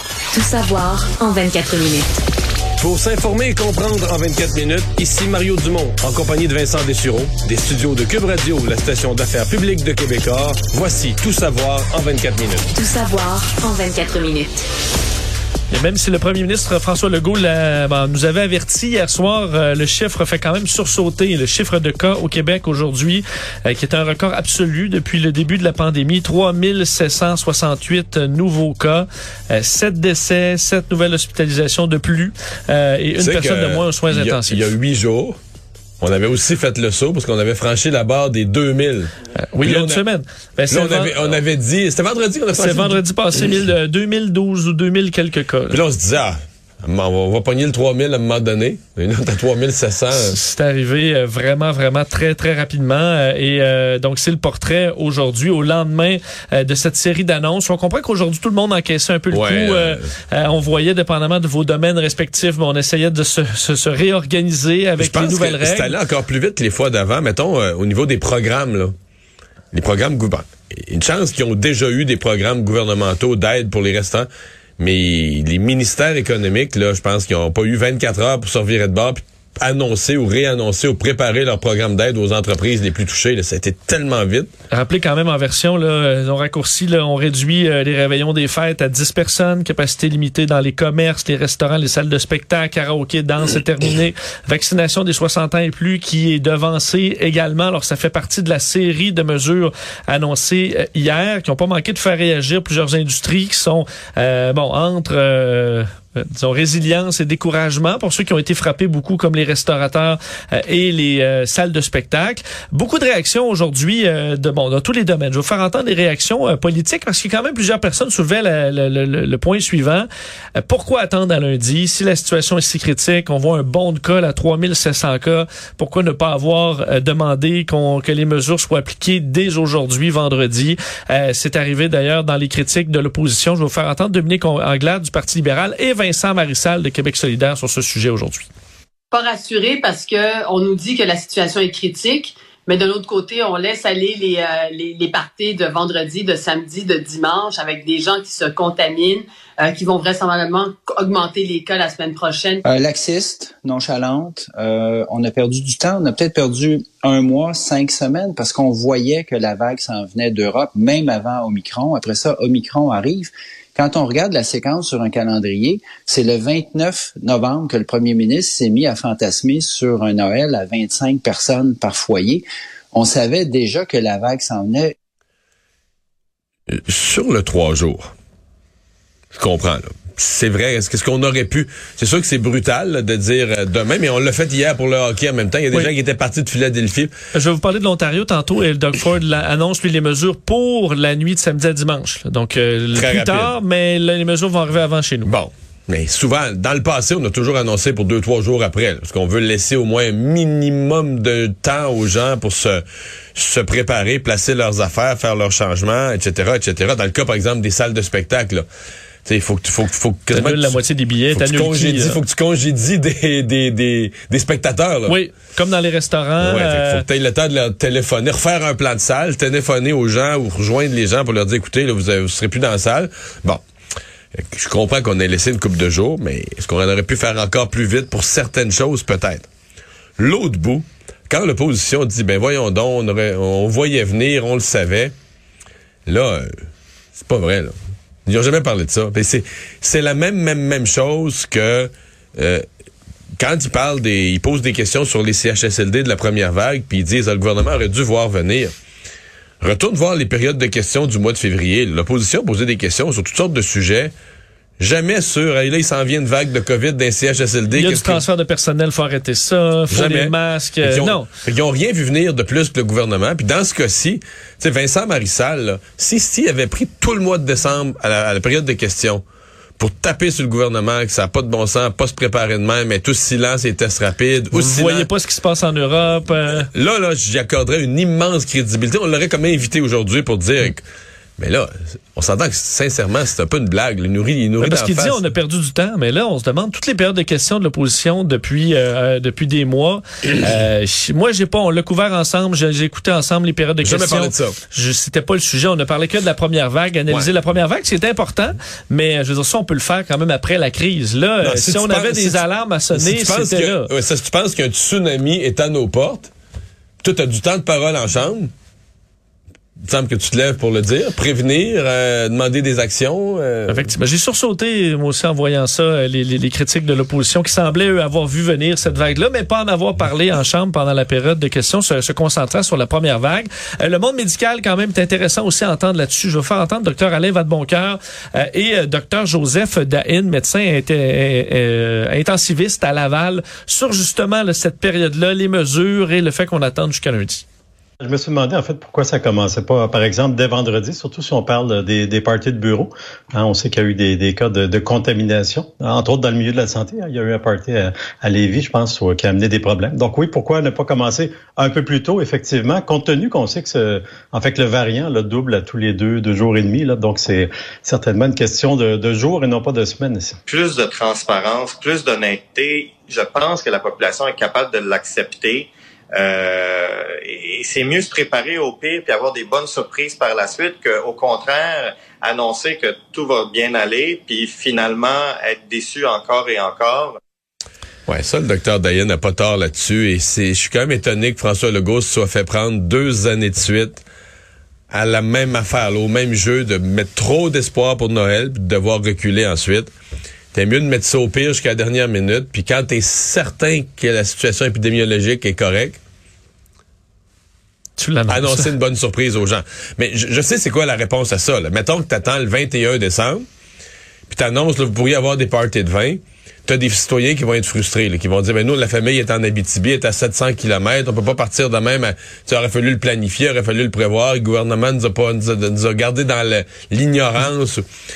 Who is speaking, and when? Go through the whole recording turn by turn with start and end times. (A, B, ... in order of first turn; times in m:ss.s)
0:00.3-0:02.2 A
0:02.8-0:12.7 B
0:12.7-0:14.7 A
0:15.7-0:34.7 C
0:33.2-0:35.4 B
0:36.0-0:40.0 B
0:39.5-0:41.3 C
0:40.7-0:43.0 B
0:42.6-0:45.8 C
0:45.7-0:50.4 B
0:50.1-1:05.9 C
0:59.3-1:00.1 B
1:05.0-1:08.9 B
1:09.7-1:14.3 B
1:14.8-1:24.5 B
1:24.7-2:00.1 C
2:00.6-2:18.5 C
2:19.1-2:32.6 D
2:32.6-2:54.9 E
2:56.7-2:58.1 B
2:59.3-3:07.1 B
3:07.3-3:15.3 C
3:12.9-3:13.5 B
3:15.2-3:28.6 B
3:29.2-3:30.8 B
3:30.3-3:32.2 C
3:31.3-3:35.2 B
3:35.1-3:37.0 C
3:36.4-3:43.6 B
3:44.3-3:49.5 B
3:50.2-3:55.1 B
3:56.0-4:02.7 B
4:03.4-4:08.7 B
4:09.6-4:14.1 B
4:14.8-4:18.2 B
4:17.7-4:21.3 C
4:19.9-4:29.2 B
4:29.8-4:35.1 B
4:34.5-4:36.7 C
4:36.6-4:40.8 B
4:41.4-4:45.2 B
4:44.6-5:03.9 C
4:53.8-4:54.6 B
5:01.4-5:06.3 B
5:07.0-5:08.5 B
5:09.8-5:13.9 B
5:13.7-5:37.4 C
5:38.0-6:00.4 F
6:00.5-6:17.2 G
6:18.1-6:24.0 B
6:24.9-6:29.9 B
6:30.5-6:36.0 B
6:38.0-6:38.7 C
6:38.3-6:43.4 B
6:44.3-6:57.8 B